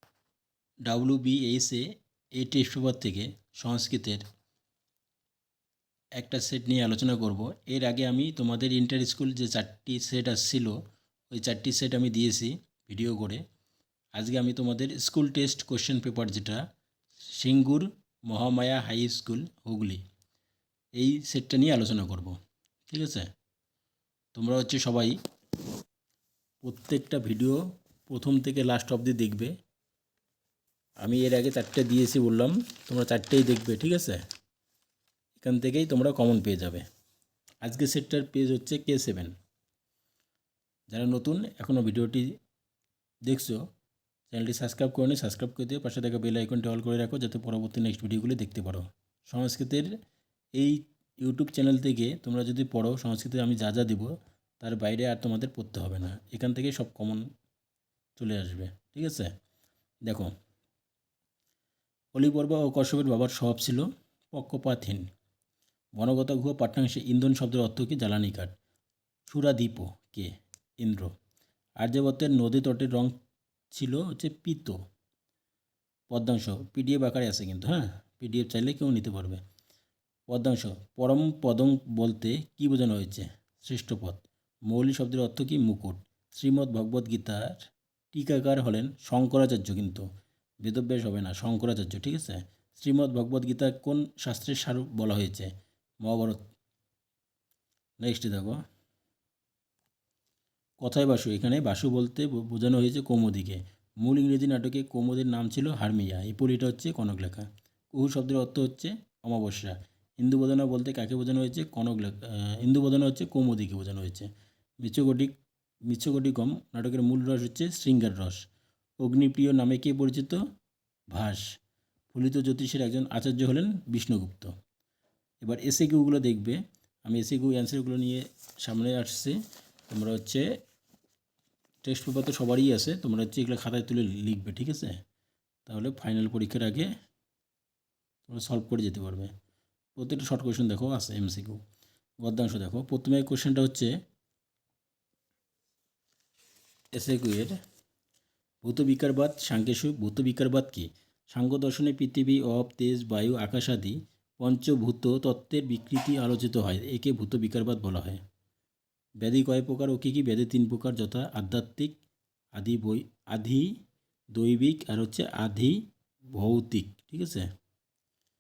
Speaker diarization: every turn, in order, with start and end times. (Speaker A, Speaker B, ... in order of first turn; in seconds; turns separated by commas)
Speaker A: 0.8-4.2, Speaker A: 6.2-10.8, Speaker A: 11.3-13.4, Speaker A: 14.1-16.6, Speaker A: 17.3-20.0, Speaker A: 20.9-22.4, Speaker A: 22.9-23.3, Speaker A: 24.3-25.2, Speaker A: 26.6-29.5, Speaker A: 31.0-34.2, Speaker A: 35.4-36.9, Speaker A: 37.6-39.3, Speaker A: 40.9-42.3, Speaker A: 43.2-43.6, Speaker A: 44.3-49.9, Speaker A: 50.5-57.2, Speaker A: 58.1-59.3, Speaker A: 60.0-60.3, Speaker A: 62.1-65.1, Speaker A: 66.0-68.5, Speaker A: 69.3-71.1, Speaker A: 71.8-73.2, Speaker A: 73.7-74.8, Speaker A: 76.1-79.4, Speaker A: 80.3-90.1, Speaker A: 90.6-96.4, Speaker A: 98.0-98.6, Speaker A: 100.8-114.3, Speaker A: 114.8-118.5, Speaker A: 119.0-120.4, Speaker A: 121.1-121.4, Speaker A: 122.1-124.5, Speaker A: 125.4-130.5, Speaker A: 131.8-135.0, Speaker A: 135.7-136.9, Speaker A: 138.3-139.3, Speaker A: 139.9-141.6, Speaker A: 142.2-143.9, Speaker A: 146.9-147.6, Speaker A: 148.6-158.2, Speaker A: 159.2-162.0, Speaker A: 162.5-163.7, Speaker A: 164.3-167.5